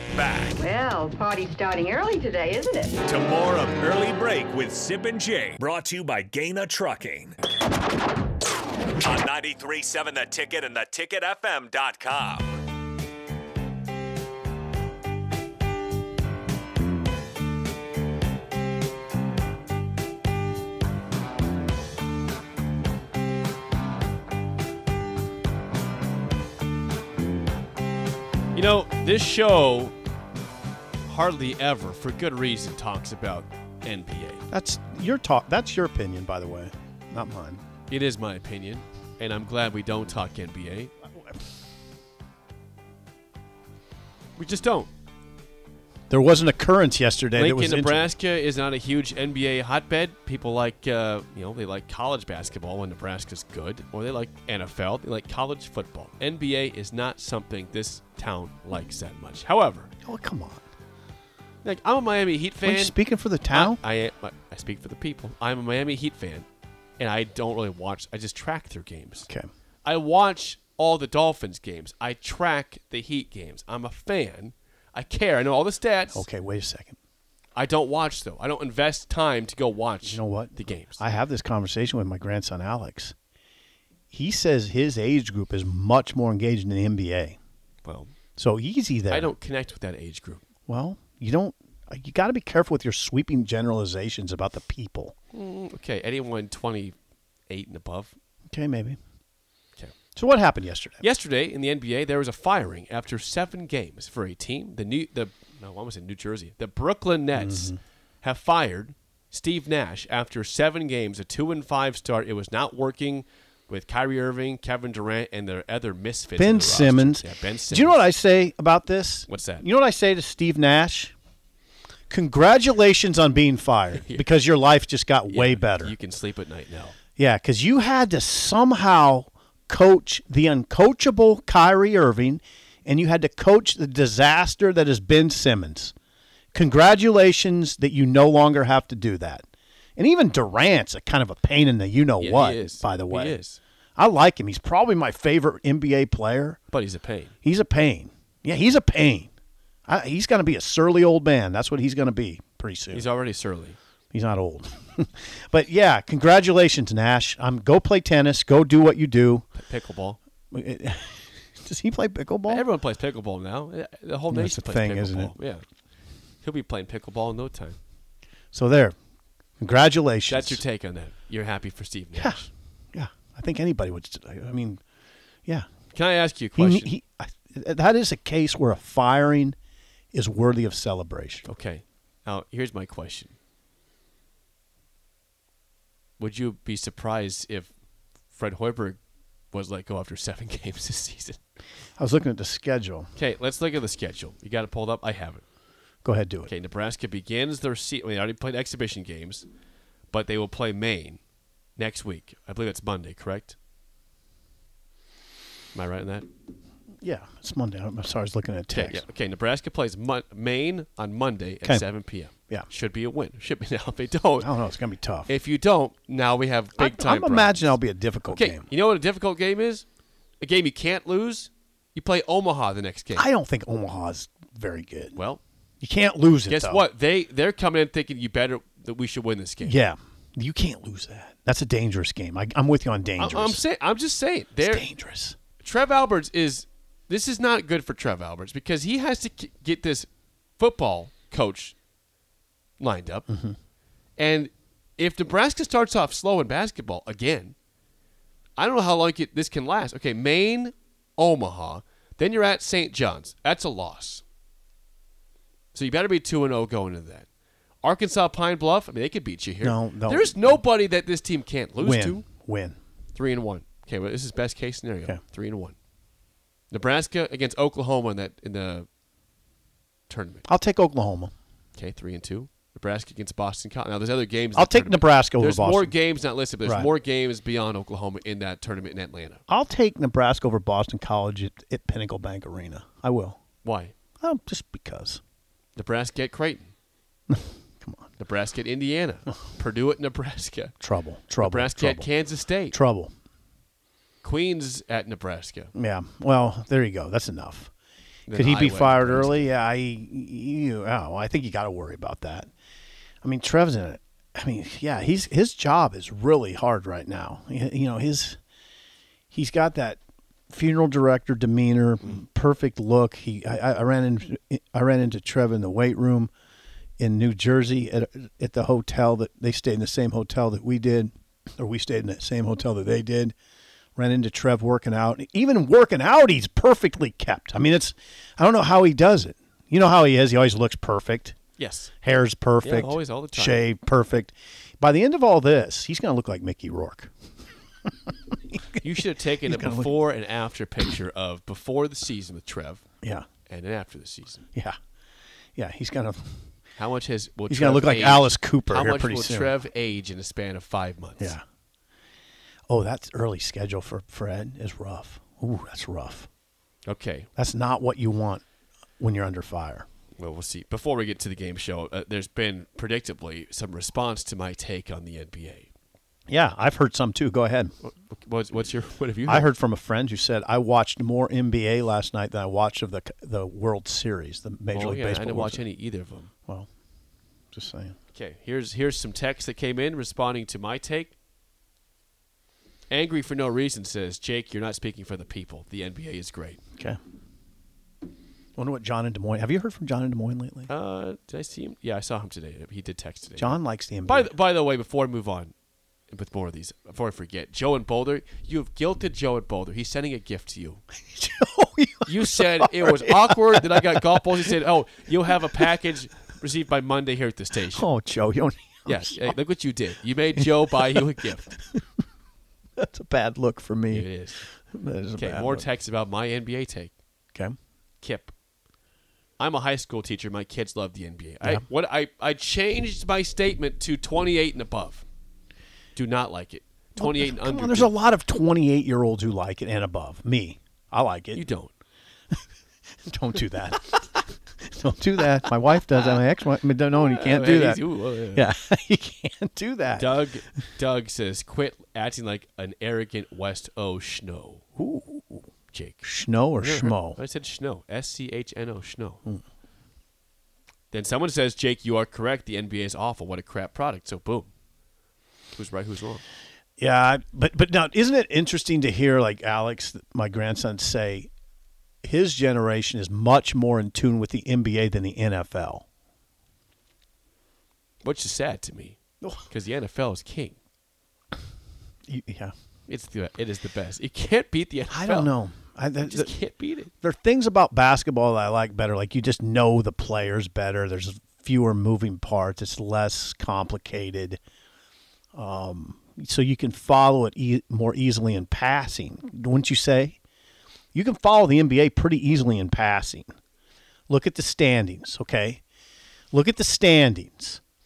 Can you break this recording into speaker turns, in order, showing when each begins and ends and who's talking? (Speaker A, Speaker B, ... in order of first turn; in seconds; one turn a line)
Speaker A: 0.1-0.6
Speaker B: 0.6-3.0
Speaker A: 3.0-7.3
Speaker A: 9.0-12.5
Speaker C: 28.5-29.9
Speaker C: 31.0-34.4
Speaker D: 34.5-37.6
Speaker C: 37.9-40.9
Speaker C: 44.4-44.9
Speaker D: 46.1-48.1
Speaker C: 47.3-59.9
Speaker D: 60.0-60.6
Speaker C: 61.6-62.9
Speaker D: 62.6-63.8
Speaker C: 63.5-66.5
Speaker C: 67.0-69.3
Speaker C: 69.8-76.3
Speaker D: 76.1-77.0
Speaker C: 77.5-81.0
Speaker D: 80.0-83.1
Speaker D: 84.1-87.4
Speaker C: 87.8-88.1
Speaker D: 88.4-89.3
Speaker C: 89.1-90.4
Speaker D: 90.7-95.1
Speaker C: 95.3-97.0
Speaker C: 97.5-98.1
Speaker D: 98.5-99.0
Speaker D: 100.2-101.0
Speaker C: 101.0-118.1
Speaker D: 107.3-107.8
Speaker D: 116.4-121.1
Speaker C: 119.3-119.7
Speaker D: 122.1-125.9
Speaker C: 123.9-124.2
Speaker C: 125.3-127.0
Speaker D: 127.2-135.9
Speaker D: 136.5-139.4
Speaker D: 140.0-143.4
Speaker C: 142.2-143.6
Speaker D: 144.0-146.6
Speaker C: 146.7-147.3
Speaker D: 147.4-149.3
Speaker D: 149.9-153.1
Speaker C: 152.9-153.8
Speaker D: 154.1-159.4
Speaker C: 159.5-160.2
Speaker D: 160.5-162.7
Speaker C: 162.5-165.6
Speaker D: 164.3-165.3
Speaker C: 166.4-167.8
Speaker D: 168.5-168.9
Speaker D: 169.6-170.6
Speaker C: 170.3-172.5
Speaker D: 172.1-174.8
Speaker C: 175.9-176.9
Speaker D: 176.6-179.6
Speaker D: 180.1-181.5
Speaker C: 181.4-183.3
Speaker C: 186.2-187.7
Speaker C: 188.3-189.0
Speaker C: 189.5-191.4
Speaker D: 192.0-193.1
Speaker C: 193.2-195.4
Speaker D: 196.0-196.5
Speaker C: 196.4-199.4
Speaker C: 200.1-201.2
Speaker C: 201.8-203.5
Speaker C: 205.7-206.2
Speaker D: 207.0-209.1
Speaker C: 208.7-214.5
Speaker D: 214.4-215.3
Speaker C: 215.2-217.8
Speaker D: 216.8-218.7
Speaker C: 218.3-219.8
Speaker C: 220.4-223.3
Speaker D: 223.1-225.2
Speaker C: 225.1-225.4
Speaker D: 225.8-226.9
Speaker C: 226.5-229.8
Speaker D: 229.6-233.6
Speaker C: 233.2-234.8
Speaker D: 234.6-235.4
Speaker C: 235.6-241.8
Speaker C: 242.8-243.3
Speaker D: 243.3-243.5
Speaker C: 244.2-247.5
Speaker C: 248.6-254.2
Speaker C: 255.7-257.3
Speaker C: 257.8-262.2
Speaker D: 259.6-260.6
Speaker D: 261.8-262.7
Speaker C: 263.1-265.8
Speaker C: 266.7-268.9
Speaker C: 270.1-270.4
Speaker D: 270.4-271.3
Speaker C: 271.8-279.4
Speaker D: 274.5-275.9
Speaker D: 276.6-276.9
Speaker D: 279.5-283.4
Speaker C: 283.6-283.9
Speaker D: 284.2-285.2
Speaker C: 285.8-286.7
Speaker D: 287.3-288.1
Speaker C: 288.2-290.7
Speaker D: 290.8-292.1
Speaker C: 291.4-292.8
Speaker D: 292.7-293.1
Speaker C: 294.2-295.7
Speaker D: 295.7-297.7
Speaker C: 298.3-299.5
Speaker D: 298.3-302.5
Speaker D: 303.2-308.4
Speaker D: 309.3-316.3
Speaker D: 317.0-323.3
Speaker D: 323.9-331.4
Speaker C: 331.6-331.9
Speaker D: 332.0-337.1
Speaker C: 332.6-333.6
Speaker D: 338.5-338.8
Speaker C: 338.8-342.8
Speaker D: 339.4-340.0
Speaker C: 343.4-344.4
Speaker D: 345.6-346.4
Speaker C: 346.8-351.4
Speaker D: 347.5-349.5
Speaker D: 352.7-356.3
Speaker C: 356.9-357.3
Speaker D: 357.4-358.4
Speaker D: 359.0-359.9
Speaker C: 360.2-365.7
Speaker D: 366.3-367.7
Speaker C: 367.8-369.5
Speaker D: 369.3-375.6
Speaker C: 374.7-376.3
Speaker D: 377.5-377.9
Speaker C: 378.1-381.1
Speaker C: 382.9-386.6
Speaker D: 388.6-390.7
Speaker C: 390.7-393.5
Speaker D: 393.4-394.3
Speaker C: 394.0-395.5
Speaker C: 396.1-400.8
Speaker D: 401.1-404.5
Speaker C: 402.1-407.9
Speaker D: 405.3-405.7
Speaker D: 407.6-409.3
Speaker C: 408.9-411.5
Speaker D: 410.4-411.8
Speaker D: 412.8-415.6
Speaker C: 413.9-414.4
Speaker C: 415.1-416.9
Speaker C: 418.0-418.3
Speaker C: 419.4-425.0
Speaker C: 425.9-427.9
Speaker D: 427.0-431.4
Speaker C: 431.3-431.7
Speaker D: 433.1-440.2
Speaker C: 435.9-436.2
Speaker C: 436.9-438.5
Speaker C: 440.0-444.6
Speaker D: 444.8-445.5
Speaker C: 445.7-446.1
Speaker D: 446.0-447.2
Speaker C: 446.6-449.2
Speaker C: 450.9-454.5
Speaker C: 455.5-456.2
Speaker D: 456.8-461.3
Speaker D: 462.0-465.8
Speaker C: 468.0-470.6
Speaker D: 472.1-472.5
Speaker C: 472.9-475.3
Speaker D: 474.9-476.3
Speaker C: 476.0-476.9
Speaker D: 477.0-484.4
Speaker D: 485.4-490.2
Speaker D: 490.9-493.3
Speaker D: 494.1-495.6
Speaker D: 496.3-497.6